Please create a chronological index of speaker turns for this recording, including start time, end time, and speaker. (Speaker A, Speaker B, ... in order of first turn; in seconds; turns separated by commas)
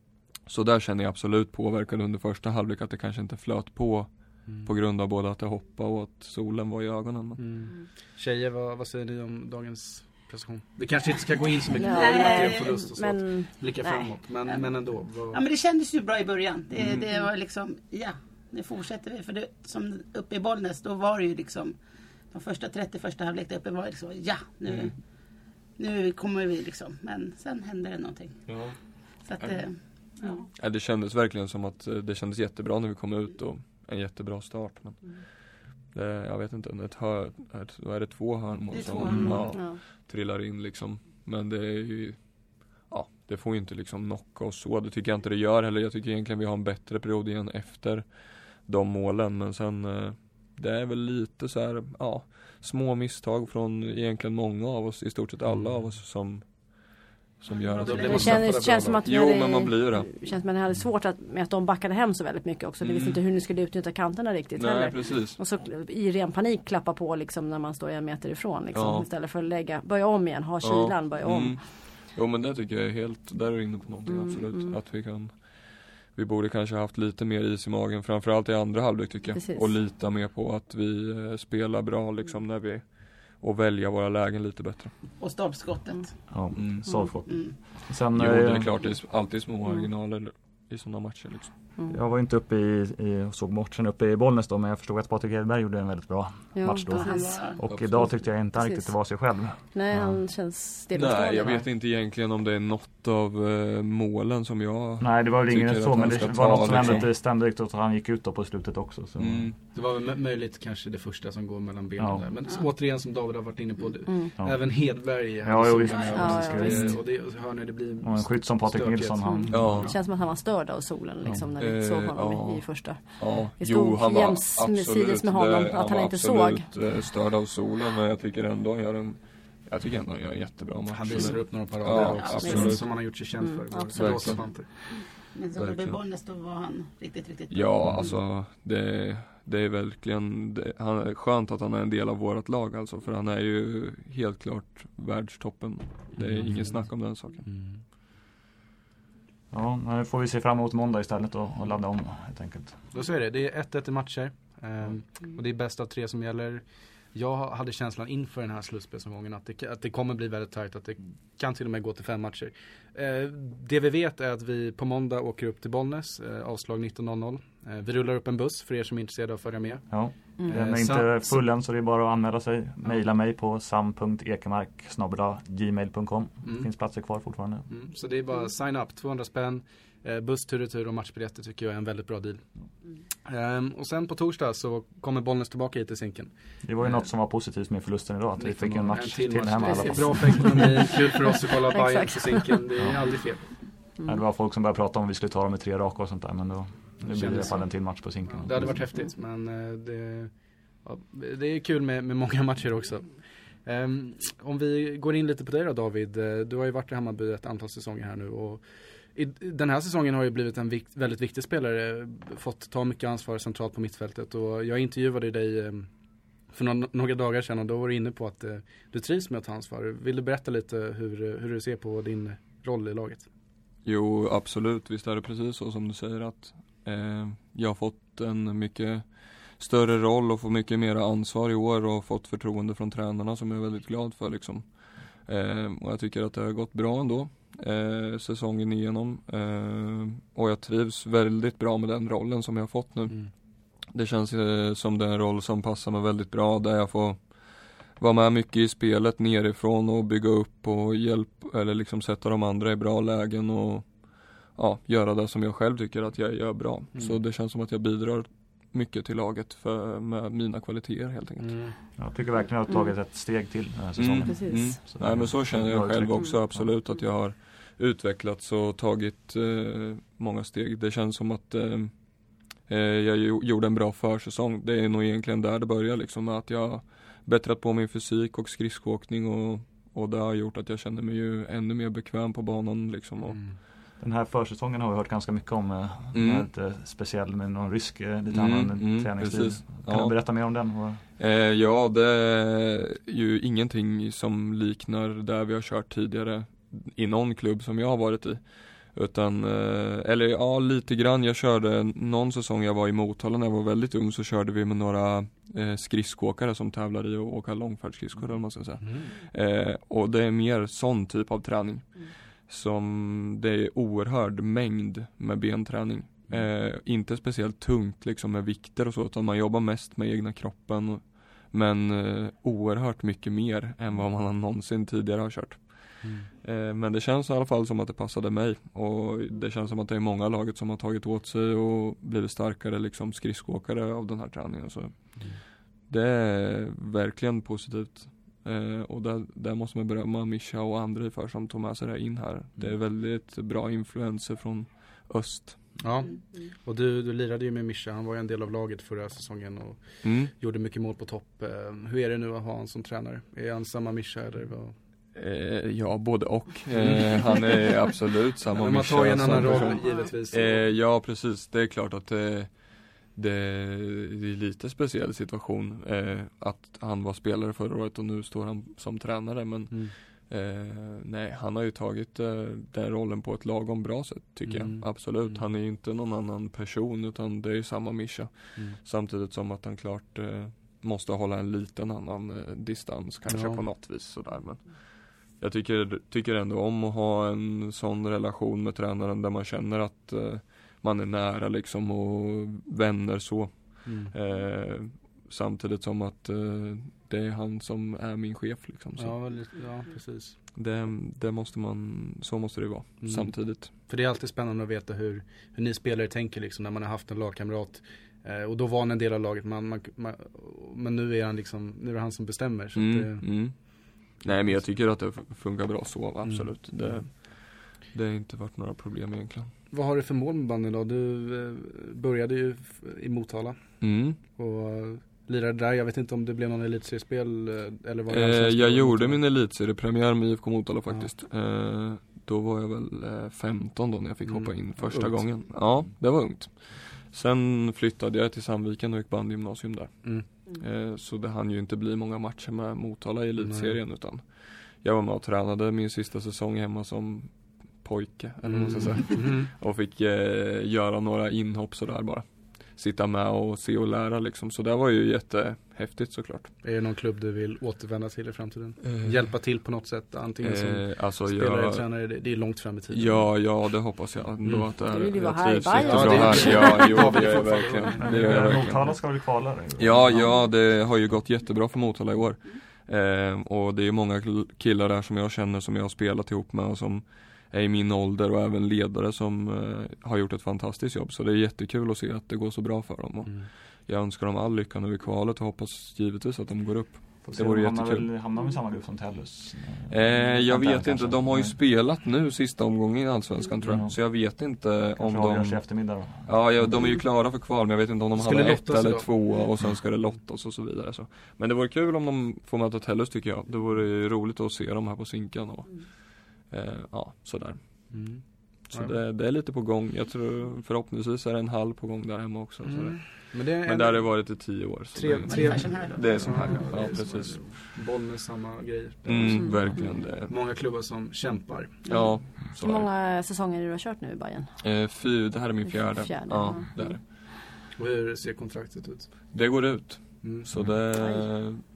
Speaker A: 0.5-7.4, Speaker B: 7.4-15.4, Speaker C: 11.7-14.1, Speaker D: 11.8-12.6, Speaker D: 15.3-21.8, Speaker D: 22.3-25.0, Speaker D: 25.8-28.4, Speaker A: 28.5-28.7, Speaker D: 29.2-30.5, Speaker A: 30.5-35.2, Speaker A: 35.9-42.2, Speaker D: 38.7-39.5, Speaker B: 39.1-39.4, Speaker C: 39.5-39.8, Speaker A: 42.9-48.0, Speaker A: 48.6-56.5, Speaker B: 55.5-55.7, Speaker A: 57.4-60.1, Speaker D: 57.6-58.1, Speaker B: 57.8-59.0, Speaker C: 57.9-71.6, Speaker A: 62.8-63.2, Speaker A: 64.5-65.4, Speaker A: 68.7-69.1, Speaker A: 70.6-84.9, Speaker C: 74.1-74.8, Speaker C: 79.3-79.7, Speaker D: 85.2-86.1, Speaker E: 86.3-88.7, Speaker A: 86.5-86.9, Speaker D: 87.2-87.5, Speaker A: 88.1-91.5, Speaker E: 91.9-100.2, Speaker C: 96.5-97.5, Speaker D: 96.9-97.6, Speaker A: 97.7-98.1, Speaker C: 98.6-98.9, Speaker C: 99.7-101.7, Speaker A: 100.9-107.1, Speaker E: 105.0-109.5, Speaker A: 109.2-109.5, Speaker B: 109.7-119.5, Speaker E: 115.4-117.0, Speaker D: 115.9-116.2, Speaker C: 116.1-116.9, Speaker E: 118.0-119.9, Speaker C: 119.2-126.7, Speaker A: 119.5-119.9, Speaker A: 121.6-132.9, Speaker B: 130.9-134.7, Speaker D: 131.9-132.6, Speaker C: 132.4-132.8, Speaker C: 133.4-134.4, Speaker A: 133.9-134.6, Speaker D: 134.9-137.9, Speaker A: 135.5-136.0, Speaker A: 137.5-147.4, Speaker B: 146.2-146.8, Speaker B: 147.4-147.8, Speaker E: 149.5-152.8, Speaker B: 152.9-169.9, Speaker E: 169.9-177.7, Speaker B: 170.4-171.4, Speaker B: 177.7-182.4, Speaker B: 183.2-186.3, Speaker E: 186.6-190.8, Speaker B: 188.4-193.4, Speaker C: 191.5-192.6, Speaker E: 194.0-198.7, Speaker B: 197.0-197.6, Speaker B: 198.3-200.3, Speaker B: 200.8-203.1, Speaker B: 203.6-208.6, Speaker B: 209.1-215.9, Speaker B: 216.5-223.3, Speaker A: 223.8-229.0, Speaker A: 229.5-234.6, Speaker A: 235.2-243.2, Speaker A: 243.9-247.2, Speaker A: 247.9-253.9, Speaker A: 254.5-261.5, Speaker B: 261.4-261.7, Speaker E: 262.0-266.7, Speaker A: 264.0-271.9, Speaker C: 264.2-264.8, Speaker A: 272.7-283.4, Speaker B: 283.3-283.5, Speaker E: 284.0-291.0, Speaker A: 286.1-286.5, Speaker A: 288.3-290.1, Speaker A: 291.2-335.4, Speaker B: 308.8-309.1, Speaker B: 326.0-326.3, Speaker A: 335.9-345.7, Speaker B: 345.8-354.7, Speaker A: 350.0-350.3, Speaker A: 355.1-362.5, Speaker B: 356.7-357.2, Speaker B: 358.6-360.6, Speaker A: 363.1-399.1, Speaker B: 374.4-375.4, Speaker B: 383.3-383.6, Speaker B: 393.8-394.1, Speaker B: 399.0-400.4, Speaker A: 400.5-403.7, Speaker B: 403.0-413.2, Speaker A: 412.8-419.5, Speaker B: 416.2-417.1, Speaker B: 419.7-429.2, Speaker A: 423.8-424.2, Speaker A: 428.1-456.5, Speaker B: 434.2-435.2, Speaker B: 443.4-443.7, Speaker B: 448.4-449.5, Speaker B: 456.6-463.3, Speaker A: 458.8-459.2, Speaker A: 460.4-461.8, Speaker A: 462.9-468.8, Speaker C: 464.9-467.2, Speaker B: 465.8-468.5, Speaker E: 468.0-470.3, Speaker A: 469.8-488.1, Speaker E: 487.2-491.6, Speaker A: 489.9-495.7, Speaker E: 493.6-493.9, Speaker E: 494.9-496.7, Speaker A: 496.2-507.6, Speaker B: 498.2-499.1, Speaker B: 507.9-508.9, Speaker A: 508.7-517.5, Speaker B: 512.6-514.1, Speaker B: 514.9-521.8, Speaker D: 515.3-516.4, Speaker A: 519.0-520.3, Speaker A: 521.9-522.9, Speaker C: 522.5-524.5, Speaker A: 524.6-527.0, Speaker C: 525.8-527.0, Speaker B: 527.8-529.1, Speaker A: 529.3-531.6, Speaker B: 530.2-530.5, Speaker C: 530.9-531.3